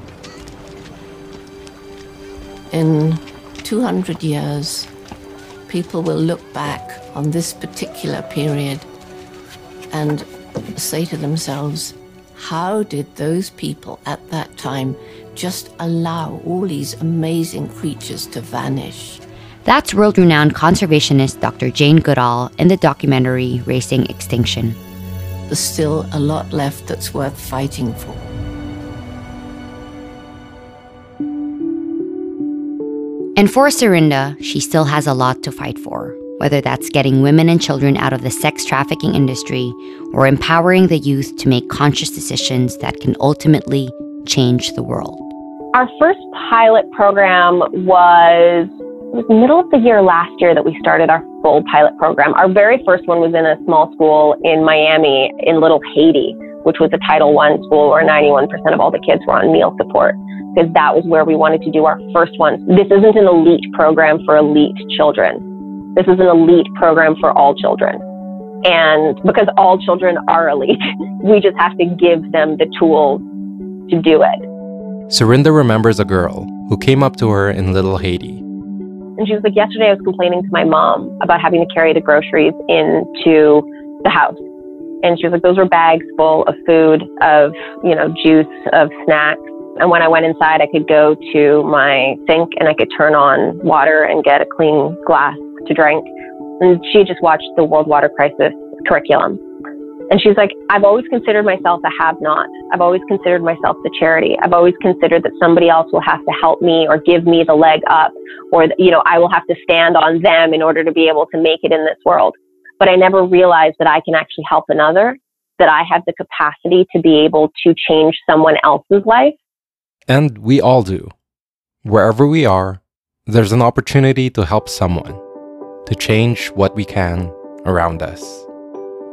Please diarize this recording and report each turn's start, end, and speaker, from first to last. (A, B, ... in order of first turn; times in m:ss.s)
0:02.7-0:04.9 A
0:05.7-0:08.9 A
0:09.9-0:19.2 A
0:19.6-0:24.8 B
0:25.5-0:28.3 A
0:33.4-0:45.3 B
0:45.7-1:05.4 C
1:06.0-1:08.0 C
1:08.6-1:13.2 C
1:13.9-1:14.4 C
1:15.1-1:18.4 D
1:19.2-1:24.4 C
1:25.0-1:36.1 C
1:36.6-1:39.4 C
1:40.1-1:59.4 C
2:00.1-2:01.1 D
2:01.8-2:05.2 D
2:05.8-2:08.5 D